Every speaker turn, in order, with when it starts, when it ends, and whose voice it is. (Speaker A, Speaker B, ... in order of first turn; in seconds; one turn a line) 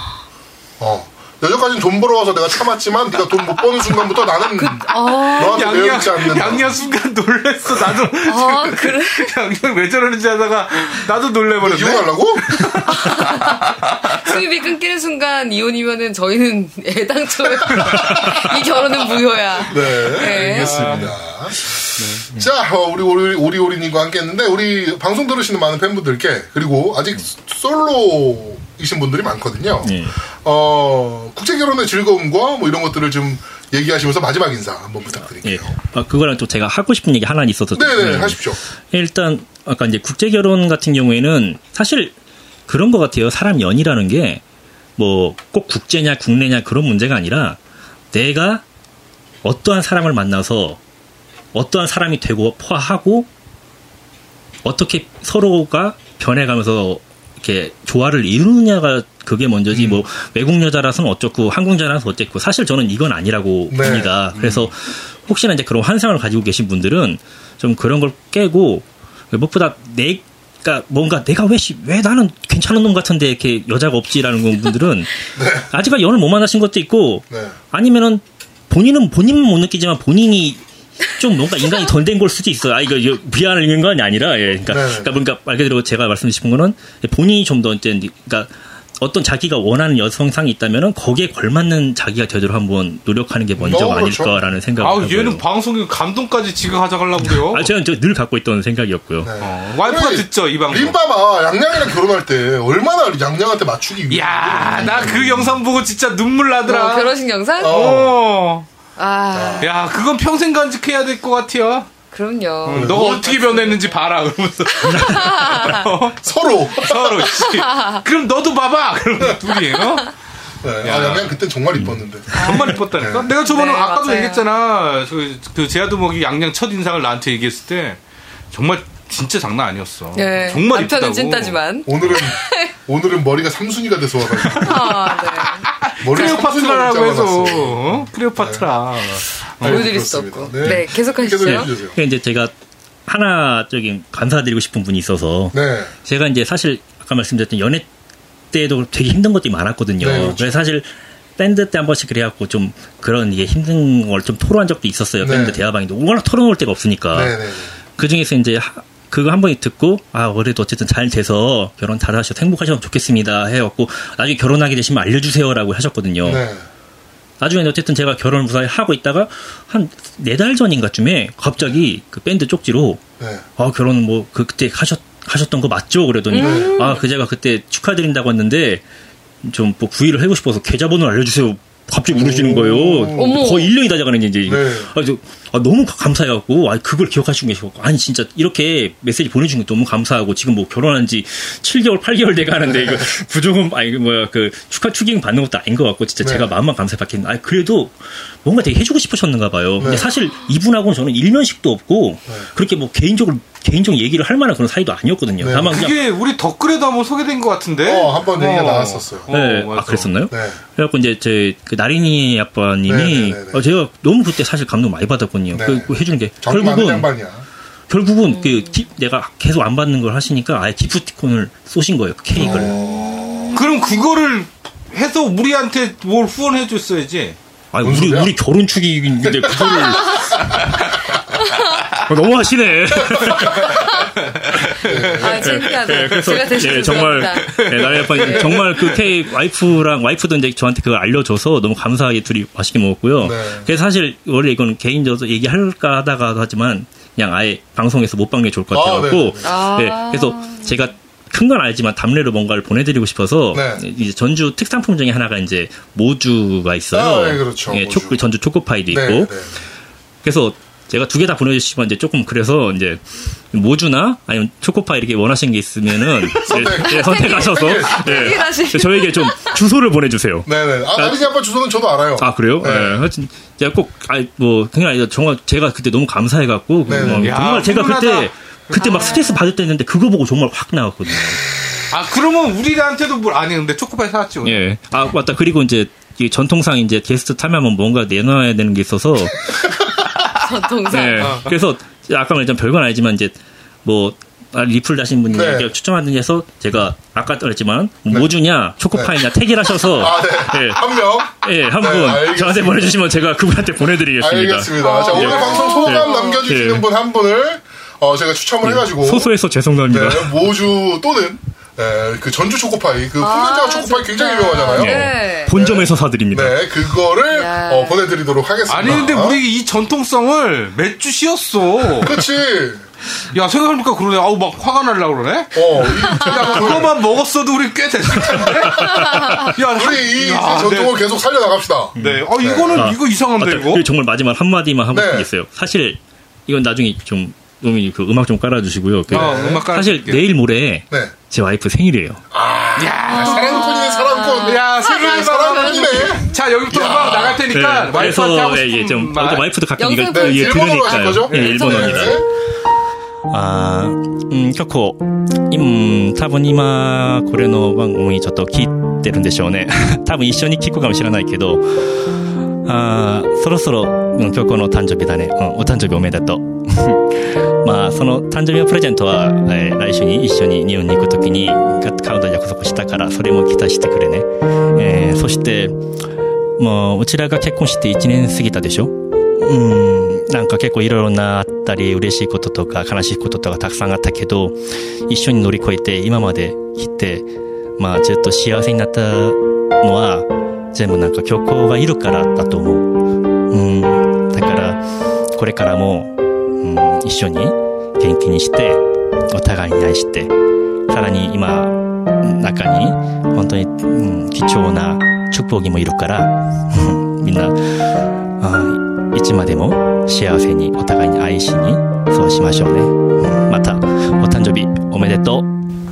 Speaker A: 0.8-6.7
Speaker B: 4.5-6.2
Speaker C: 5.0-14.4
Speaker B: 8.3-9.3
Speaker A: 11.6-12.8
Speaker B: 12.9-21.0
Speaker D: 17.9-18.4
Speaker A: 19.7-35.8
Speaker C: 20.2-21.1
Speaker C: 22.0-22.2
Speaker D: 29.8-30.2
Speaker D: 35.4-42.1
Speaker A: 37.7-38.6
Speaker D: 42.7-44.4
Speaker D: 45.0-47.6
Speaker D: 48.1-48.6
Speaker D: 49.4-50.8
Speaker D: 51.5-53.3
Speaker D: 54.6-80.6
Speaker A: 59.7-60.0
Speaker A: 63.7-64.2
Speaker C: 64.4-64.7
Speaker A: 75.4-75.7
Speaker A: 77.3-77.6
Speaker D: 81.2-95.4
Speaker A: 84.7-85.2
Speaker A: 93.6-94.4
Speaker C: 94.8-97.7
Speaker D: 97.2-99.3
Speaker A: 99.2-105.4
Speaker C: 99.4-101.0
Speaker C: 104.1-108.7
Speaker D: 105.0-105.5
Speaker B: 106.7-107.9
Speaker A: 107.6-108.2
Speaker B: 109.0-109.7
Speaker A: 109.3-109.7
Speaker C: 109.6-111.9
Speaker B: 112.1-113.8
Speaker C: 112.7-120.1
Speaker A: 112.7-113.3
Speaker B: 114.8-115.9
Speaker D: 114.9-115.3
Speaker A: 116.2-117.3
Speaker B: 117.3-118.0
Speaker A: 120.6-123.3
Speaker C: 120.8-121.4
Speaker D: 121.8-122.6
Speaker C: 122.3-128.0
Speaker B: 122.3-122.7
Speaker B: 123.4-124.5
Speaker C: 128.5-131.6
Speaker B: 130.2-132.7
Speaker A: 131.9-135.1
Speaker B: 134.5-136.3
Speaker C: 134.7-139.9
Speaker A: 136.0-138.7
Speaker A: 139.6-142.0
Speaker B: 139.6-141.7
Speaker D: 141.4-142.5
Speaker D: 143.1-147.9
Speaker A: 145.5-145.9
Speaker D: 148.5-157.4
Speaker A: 150.0-150.5
Speaker A: 155.2-155.6
Speaker A: 157.1-157.8
Speaker D: 158.0-166.4
Speaker A: 166.2-166.7
Speaker D: 167.4-173.0
Speaker A: 173.2-173.4
Speaker D: 173.6-178.8
Speaker B: 176.3-177.0
Speaker A: 176.4-176.9
Speaker D: 179.4-206.0
Speaker A: 182.1-183.4
Speaker B: 183.1-183.7
Speaker A: 184.5-184.9
Speaker A: 192.7-193.1
Speaker A: 196.2-196.5
Speaker A: 199.8-200.1
Speaker A: 205.4-205.8
Speaker C: 205.7-210.1
Speaker A: 207.8-209.3
Speaker D: 209.3-217.1
Speaker A: 210.3-210.6
Speaker A: 212.9-213.6
Speaker A: 215.5-217.4
Speaker D: 217.9-222.8
Speaker A: 222.4-223.6
Speaker B: 222.4-223.6
Speaker C: 223.5-227.4
Speaker D: 227.7-230.8
Speaker A: 227.8-228.3
Speaker A: 229.2-230.4
Speaker B: 230.0-230.3
Speaker D: 232.0-233.9
Speaker A: 233.1-233.8
Speaker B: 233.6-234.1
Speaker C: 234.2-239.1
Speaker A: 234.8-235.7
Speaker B: 235.1-238.6
Speaker D: 235.2-259.3
Speaker A: 243.2-243.7
Speaker A: 248.7-249.6
Speaker B: 249.4-250.8
Speaker A: 253.5-253.8
Speaker A: 256.9-258.2
Speaker A: 258.9-259.6
Speaker D: 260.2-271.3
Speaker A: 266.3-268.5
Speaker B: 266.6-269.6
Speaker A: 270.5-273.1
Speaker D: 272.2-281.4
Speaker A: 276.9-277.4
Speaker C: 277.0-278.3
Speaker B: 278.8-279.4
Speaker C: 281.9-284.6
Speaker D: 284.4-289.7
Speaker B: 290.4-291.4
Speaker D: 290.9-306.9
Speaker C: 291.2-291.5
Speaker A: 295.3-295.7
Speaker A: 298.9-299.3
Speaker A: 299.8-303.0
Speaker A: 304.2-309.3
Speaker B: 304.8-306.5
Speaker D: 308.6-310.5
Speaker A: 309.9-319.4
Speaker B: 313.2-315.6
Speaker D: 314.8-316.7
Speaker B: 317.3-318.0
Speaker C: 318.7-322.2
Speaker A: 322.0-322.9
Speaker C: 323.3-331.0
Speaker A: 325.6-326.9
Speaker B: 326.1-326.6
Speaker A: 328.2-332.9
Speaker D: 328.3-329.5
Speaker B: 329.0-329.5
Speaker D: 332.0-342.2
Speaker C: 332.0-333.9
Speaker A: 334.9-335.3
Speaker C: 339.1-340.2
Speaker A: 339.1-339.6
Speaker A: 342.3-347.4
Speaker C: 342.8-343.8
Speaker B: 343.0-346.3
Speaker C: 344.4-349.5
Speaker D: 347.5-352.2
Speaker B: 349.8-352.2
Speaker A: 350.1-352.3
Speaker D: 353.3-375.8
Speaker D: 376.6-387.3
Speaker D: 387.8-392.9
Speaker D: 393.5-394.8
Speaker D: 395.3-400.3
Speaker D: 400.9-415.5